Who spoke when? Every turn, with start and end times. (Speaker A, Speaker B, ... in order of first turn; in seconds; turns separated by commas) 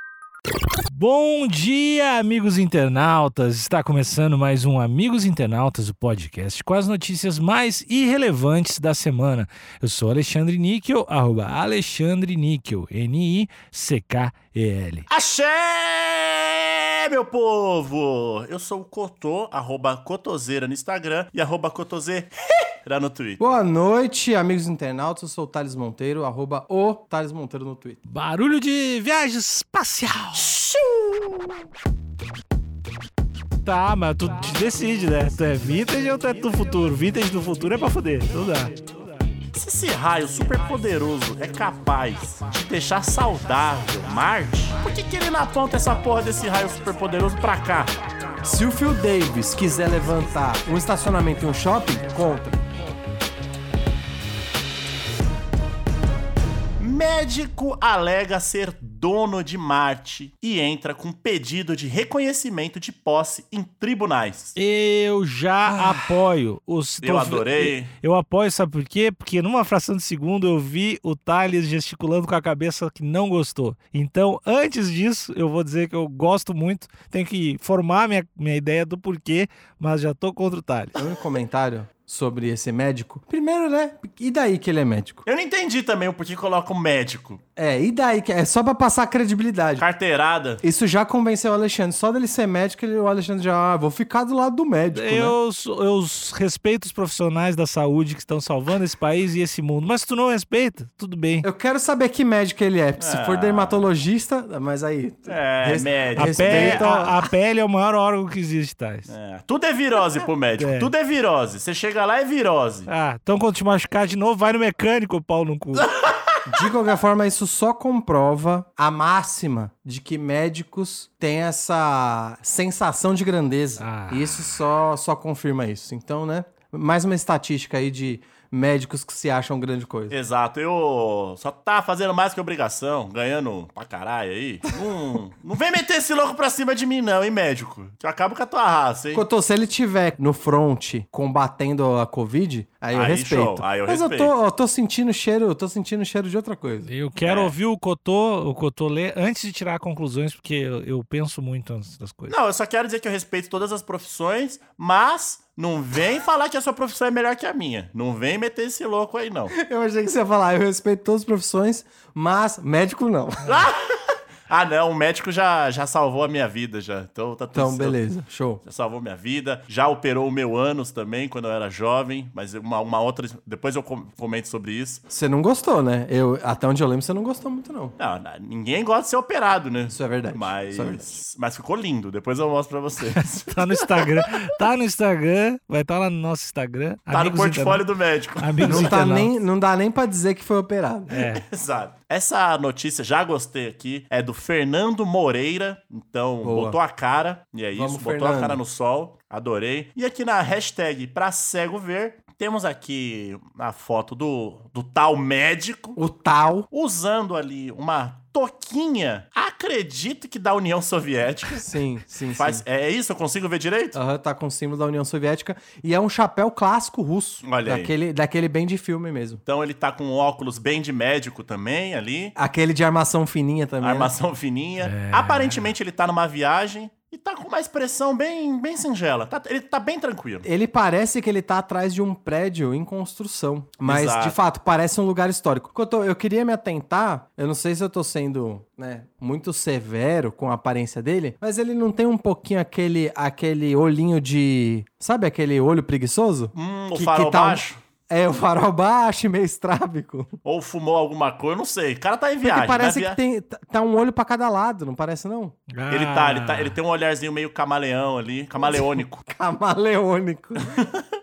Speaker A: 0.9-15.1, Speaker B: 15.1-22.3, Speaker B: 22.9-23.4, Speaker C: 23.4-28.0, Speaker A: 28.1-30.5, Speaker B: 30.4-31.6, Speaker A: 33.6-38.8, Speaker B: 39.5-47.9, Speaker C: 48.4-52.6, Speaker B: 56.8-64.5, Speaker A: 64.6-81.0, Speaker B: 67.0-67.9, Speaker C: 81.0-85.2, Speaker B: 85.2-87.4, Speaker C: 87.6-89.9, Speaker B: 89.8-90.6, Speaker C: 90.6-95.4, Speaker A: 94.9-101.5, Speaker C: 101.4-107.2, Speaker B: 103.0-103.9, Speaker B: 105.3-106.9, Speaker A: 106.2-109.1, Speaker B: 109.1-112.9, Speaker A: 110.6-110.9, Speaker A: 112.9-115.9, Speaker C: 116.5-130.2, Speaker A: 123.8-124.5, Speaker B: 130.1-139.2, Speaker C: 139.1-146.9, Speaker B: 142.9-144.3, Speaker A: 146.9-152.4, Speaker B: 147.2-147.5, Speaker B: 152.3-159.6, Speaker C: 159.5-163.7, Speaker B: 163.4-168.0, Speaker C: 167.5-168.6, Speaker B: 168.6-175.0, Speaker C: 175.1-177.9, Speaker B: 178.0-184.2, Speaker C: 179.9-181.2, Speaker A: 183.2-187.9, Speaker B: 187.1-188.9, Speaker A: 188.4-189.3, Speaker C: 188.6-191.1, Speaker A: 191.1-191.4, Speaker B: 191.2-206.0, Speaker C: 196.4-196.8, Speaker C: 197.7-198.6, Speaker C: 206.0-206.7, Speaker B: 206.7-211.7, Speaker C: 211.6-212.7, Speaker B: 212.4-214.0, Speaker C: 213.9-219.4, Speaker B: 217.4-217.9, Speaker B: 219.5-222.3, Speaker C: 222.4-224.1, Speaker B: 223.8-230.4, Speaker A: 224.8-225.7, Speaker C: 230.4-250.3, Speaker B: 233.8-234.4, Speaker B: 246.5-247.8, Speaker B: 250.4-253.2, Speaker C: 252.4-255.6, Speaker A: 255.7-256.8, Speaker B: 255.9-259.2, Speaker C: 258.6-260.7, Speaker B: 260.6-261.0